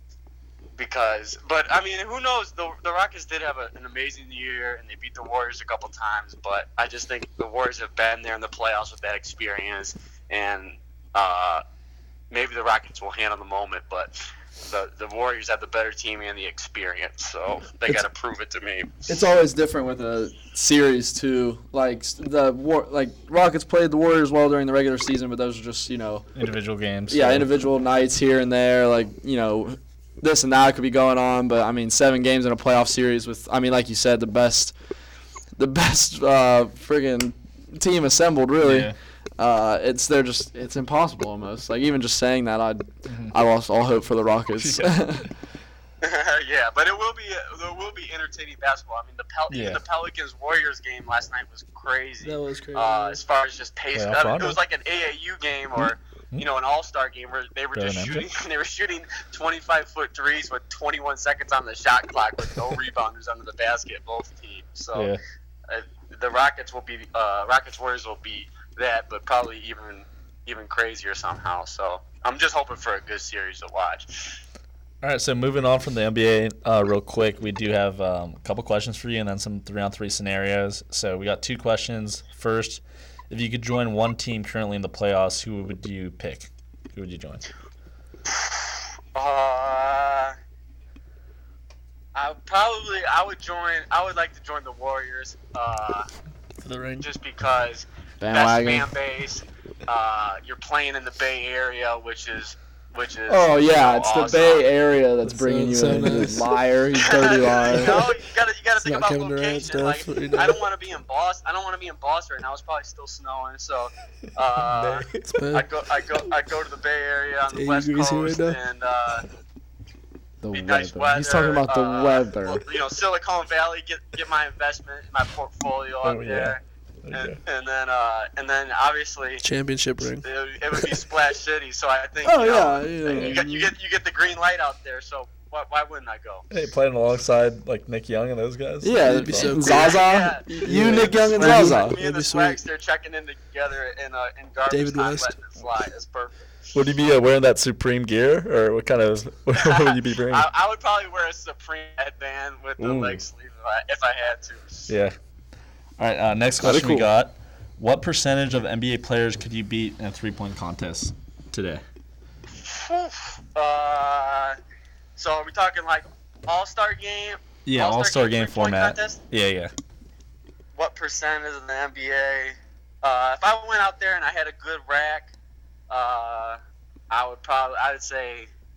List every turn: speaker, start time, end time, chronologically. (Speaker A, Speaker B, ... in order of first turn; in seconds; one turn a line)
Speaker A: 0.8-11.6
Speaker A: 12.3-18.9
Speaker B: 19.1-26.3
Speaker C: 26.3-27.5
Speaker B: 27.1-34.7
Speaker B: 35.6-45.3
Speaker C: 38.6-39.0
Speaker C: 43.0-43.3
Speaker C: 44.6-45.2
Speaker A: 46.0-65.1
Speaker C: 49.5-49.8
Speaker D: 52.2-53.2
Speaker C: 53.9-54.6
Speaker C: 57.7-58.2
Speaker C: 64.9-65.2
Speaker A: 65.7-74.3
Speaker C: 75.0-87.4
Speaker A: 88.3-90.3
Speaker A: 92.1-96.1
Speaker D: 96.6-97.1
Speaker A: 97.0-104.7
Speaker B: 98.2-98.9
Speaker B: 103.3-108.1
Speaker D: 105.3-106.5
Speaker A: 107.0-119.2
Speaker D: 108.8-110.6
Speaker D: 115.2-115.6
Speaker D: 117.5-118.6
Speaker B: 120.4-122.6
Speaker A: 120.5-126.6
Speaker C: 126.0-127.4
Speaker A: 127.1-129.4
Speaker D: 129.4-130.2
Speaker A: 130.1-136.4
Speaker B: 132.2-133.7
Speaker C: 136.5-139.6
Speaker B: 138.8-141.9
Speaker D: 139.0-140.0
Speaker A: 139.6-146.5
Speaker D: 140.6-142.6
Speaker D: 144.7-145.3
Speaker C: 146.7-150.5
Speaker A: 149.5-154.8
Speaker C: 152.8-153.2
Speaker C: 154.9-155.1
Speaker C: 156.0-161.8
Speaker B: 156.6-157.1
Speaker A: 162.6-164.6
Speaker A: 165.2-169.2
Speaker C: 167.6-169.7
Speaker A: 170.7-175.3
Speaker A: 175.9-176.6
Speaker A: 177.1-178.5